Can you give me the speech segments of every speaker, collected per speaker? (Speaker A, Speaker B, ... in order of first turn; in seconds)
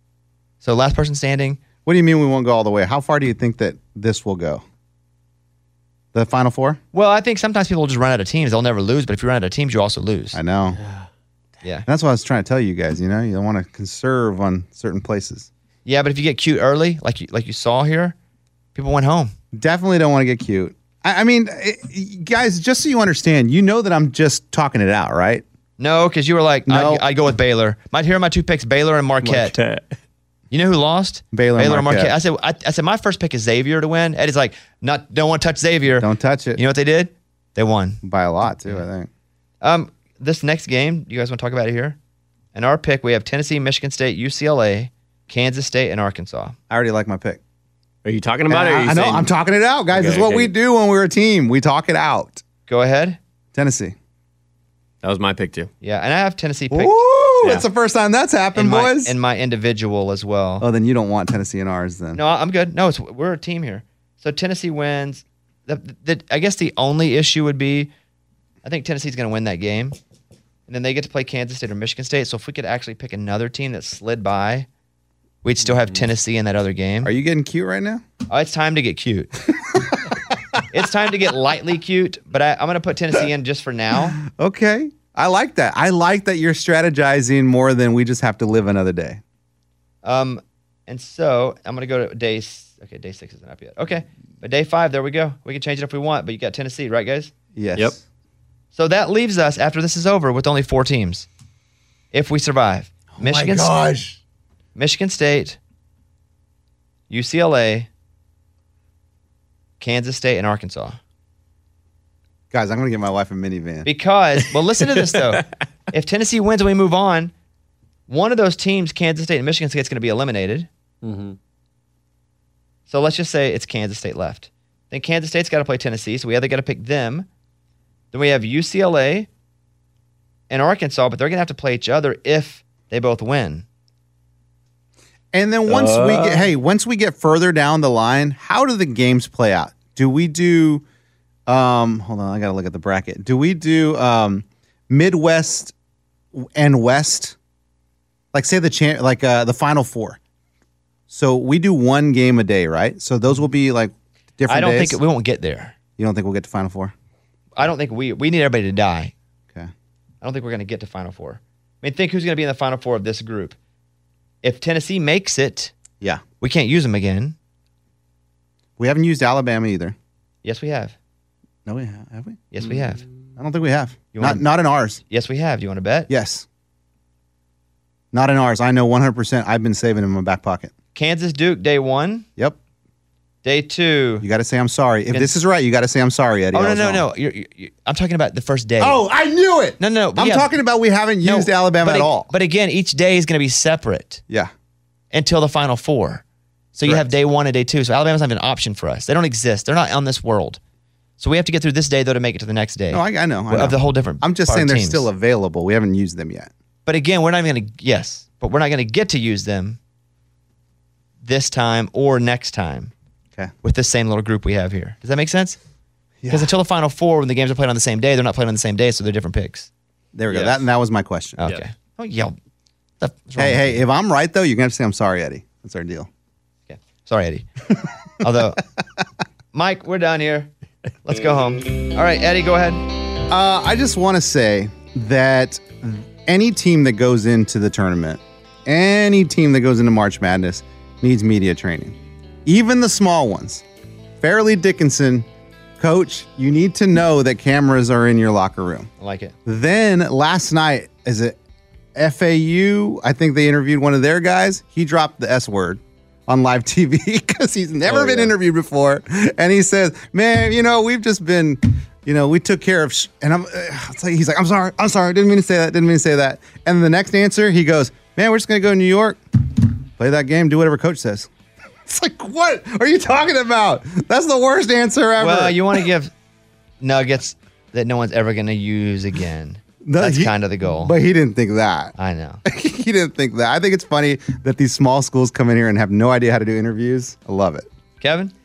Speaker A: 0.6-1.6, 6.9-10.4, 15.8-18.1, 18.7-19.3, 25.8-29.6, 30.5-38.0, 39.6-42.0, 42.5-46.5, 52.7-53.2, 55.8-57.0, 58.5-60.6, 62.1-67.9, 68.6-70.0, 70.7-74.7, 75.4-77.1, 78.3-79.3, 80.7-84.2, 90.0-97.3, 98.7-101.3, 102.1-103.7, 104.8-105.6, 107.1-107.9, 109.8-111.0, 113.8-117.3, 118.1-120.7, 122.9-127.3, 128.1-129.3, 130.5-133.6, 154.5-155.7, 157.6-159.1, 160.2-163.6, 164.4-165.7, 166.4-167.3, 170.4-170.9, 172.5-173.0, 174.1-174.5, 175.0-176.1, 180.9-182.3, 183.4-184.2, 185.1-185.4, 186.5-189.0, 189.8-190.5, 191.2-194.2, 195.1-200.6, 201.2-205.1, 206.8-209.8, 211.2-212.9, 213.6-215.6, 216.3-219.7, 221.4-222.3, 223.0-223.8, 226.7-227.5, 228.2-228.6, 229.5-230.5, 231.0-232.8, 249.0-249.3, 275.2-276.1, 276.8-280.9, 282.0-282.4, 288.0-288.3
Speaker B: 1.8-4.6, 6.1-6.8, 10.3-10.8, 11.9-15.5, 19.5-25.4, 26.7-27.0, 29.2-29.5, 31.3-32.2, 36.0-36.6, 38.0-39.1, 46.7-47.4, 48.5-52.4, 53.5-53.9, 56.7-59.1, 60.6-62.2, 77.0-78.0, 84.2-89.2, 97.5-98.0, 103.1-104.2, 112.5-113.9, 135.3-140.8, 141.5-145.7, 146.3-147.3, 148.3-150.2, 151.1-155.0, 156.0-156.9, 168.8-169.9, 171.7-172.5, 173.4-175.0, 176.1-176.4, 178.1-180.7, 184.2-187.1, 188.8-192.3, 196.8-197.1, 202.9-206.5, 216.2-216.5, 220.1-221.5, 223.3-226.1, 233.3-243.6, 244.2-245.3, 245.8-248.9, 249.4-251.4, 251.9-271.3, 271.9-275.9, 279.8-287.6
Speaker C: 10.7-11.1, 48.0-49.3, 49.9-50.5, 55.0-55.7, 121.0-121.4, 135.7-136.5, 257.9-258.3